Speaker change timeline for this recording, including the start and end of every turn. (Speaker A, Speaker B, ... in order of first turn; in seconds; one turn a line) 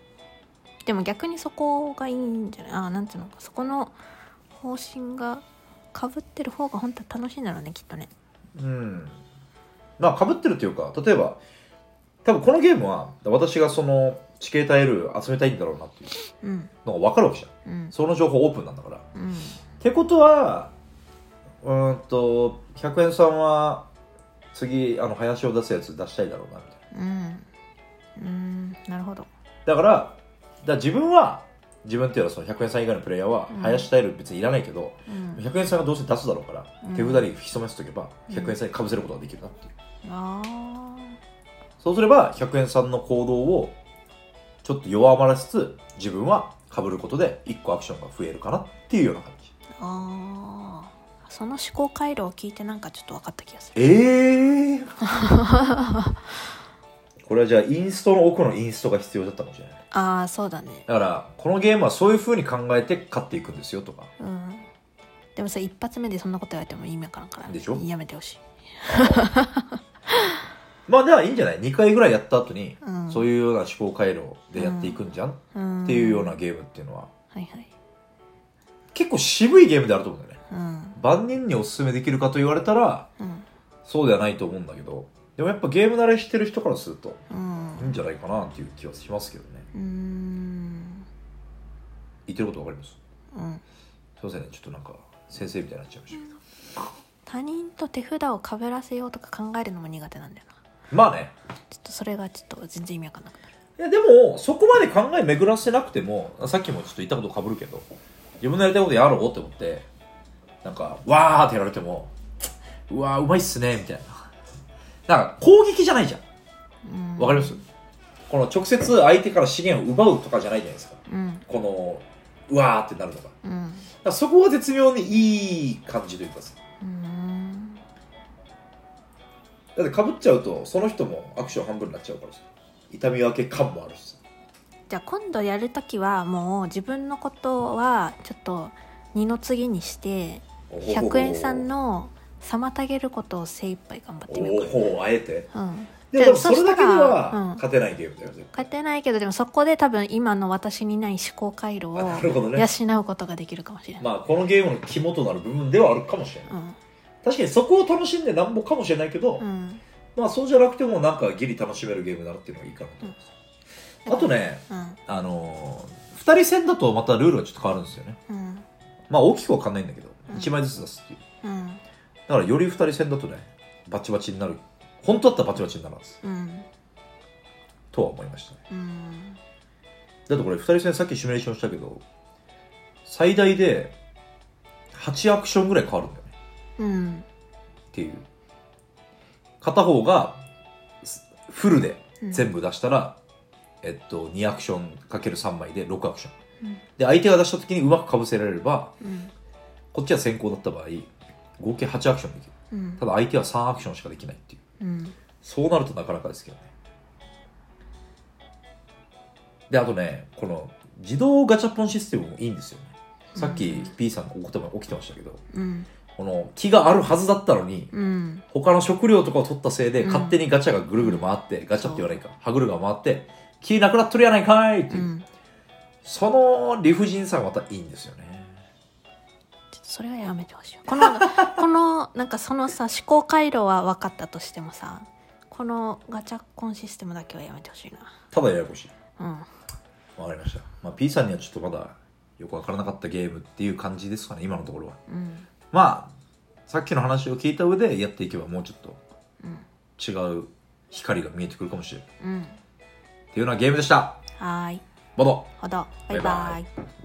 Speaker A: 0.8-4.0
Speaker A: 4.5-8.1
Speaker B: 8.6-9.2
Speaker B: 10.0-11.4
Speaker B: 12.2-16.1
Speaker A: 16.3-16.7
Speaker B: 16.8-19.0
Speaker A: 17.6-17.9
Speaker A: 19.1-19.6
Speaker B: 19.8-20.7
Speaker B: 21.6-23.9
Speaker B: 24.5-26.8
Speaker A: 26.9-27.5
Speaker A: 28.2-29.3
Speaker B: 29.6-39.7
Speaker A: 33.5-33.9
Speaker A: 35.1-35.4
Speaker A: 36.8-37.3
Speaker A: 38.3-38.6
Speaker A: 40.0-41.2
Speaker B: 41.8-43.8
Speaker B: 44.6-49.5
Speaker A: 49.8-53.9
Speaker B: 53.7-54.9
Speaker A: 55.0-56.2
Speaker B: 57.2-59.8
Speaker A: 59.9-60.9
Speaker B: 60.9-64.1
Speaker A: 64.2-64.7
Speaker A: 65.3-70.3
Speaker B: 67.5-67.8
Speaker B: 68.8-69.3
Speaker B: 70.9-77.1
Speaker A: 72.8-73.3
Speaker A: 74.5-76.4
Speaker A: 77.3-77.7
Speaker B: 78.9-80.4
Speaker A: 80.5-81.0
Speaker B: 80.9-83.1
Speaker A: 83.2-83.5
Speaker B: 83.8-87.2
Speaker A: 87.3-88.0
Speaker B: 87.8-89.7
Speaker A: 89.7-91.0
Speaker B: 92.3-93.0
Speaker A: 93.3-93.6
Speaker B: 94.2-96.3
Speaker A: 97.2-100.5
Speaker B: 100.9-101.3
Speaker A: 101.7-103.5
Speaker B: 103.8-107.9
Speaker B: 108.4-109.9
Speaker B: 110.6-112.1
Speaker B: 112.9-114.3
Speaker B: 115.1-116.2
Speaker A: 116.8-117.6
Speaker B: 117.2-117.6
Speaker B: 118.3-123.3
Speaker A: 121.1-121.4
Speaker A: 123.4-123.9
Speaker B: 124.0-126.6
Speaker A: 126.8-127.8
Speaker B: 129.7-134.2
Speaker A: 134.9-144.9
Speaker B: 140.7-141.7
Speaker B: 144.3-145.5
Speaker A: 145.5-147.6
Speaker B: 146.1-148.7
Speaker A: 148.5-154.1
Speaker B: 151.9-152.7
Speaker B: 154.0-156.5
Speaker A: 156.5-156.8
Speaker B: 157.2-159.4
Speaker A: 159.4-159.8
Speaker B: 160.2-163.2
Speaker B: 164.0-168.2
Speaker A: 164.1-165.0
Speaker A: 168.3-168.6
Speaker B: 169.1-171.2
Speaker A: 170.3-170.6
Speaker A: 171.4-171.8
Speaker B: 172.3-176.2
Speaker A: 176.2-176.7
Speaker B: 177.9-178.6
Speaker A: 178.7-179.4
Speaker B: 180.3-182.0
Speaker B: 183.0-184.0
Speaker B: 184.9-186.3
Speaker A: 186.8-187.2
Speaker B: 187.9-188.2
Speaker B: 189.6-190.4
Speaker B: 191.0-193.2
Speaker A: 192.2-192.5
Speaker B: 193.8-196.3
Speaker B: 197.0-198.9
Speaker A: 199.0-199.3
Speaker B: 199.9-204.6
Speaker A: 202.7-203.0
Speaker A: 204.8-205.1
Speaker B: 205.4-206.7
Speaker B: 209.7-215.4
Speaker A: 213.3-213.9
Speaker A: 215.5-215.9
Speaker B: 216.2-217.9
Speaker A: 217.9-218.4
Speaker B: 218.5-225.1
Speaker A: 220.0-220.4
Speaker A: 221.7-222.2
Speaker A: 224.9-225.2
Speaker B: 226.0-228.6
Speaker A: 229.7-238.2
Speaker B: 231.2-231.6
Speaker B: 238.3-238.9
Speaker A: 239.2-239.5
Speaker B: 240.2-245.0
Speaker A: 245.1-245.5
Speaker B: 245.7-246.1
Speaker B: 246.7-249.0
Speaker B: 250.0-252.0
Speaker A: 252.2-252.6
Speaker B: 253.3-254.2
Speaker A: 254.4-254.8
Speaker B: 255.2-255.5
Speaker A: 255.6-256.7
Speaker B: 256.1-256.6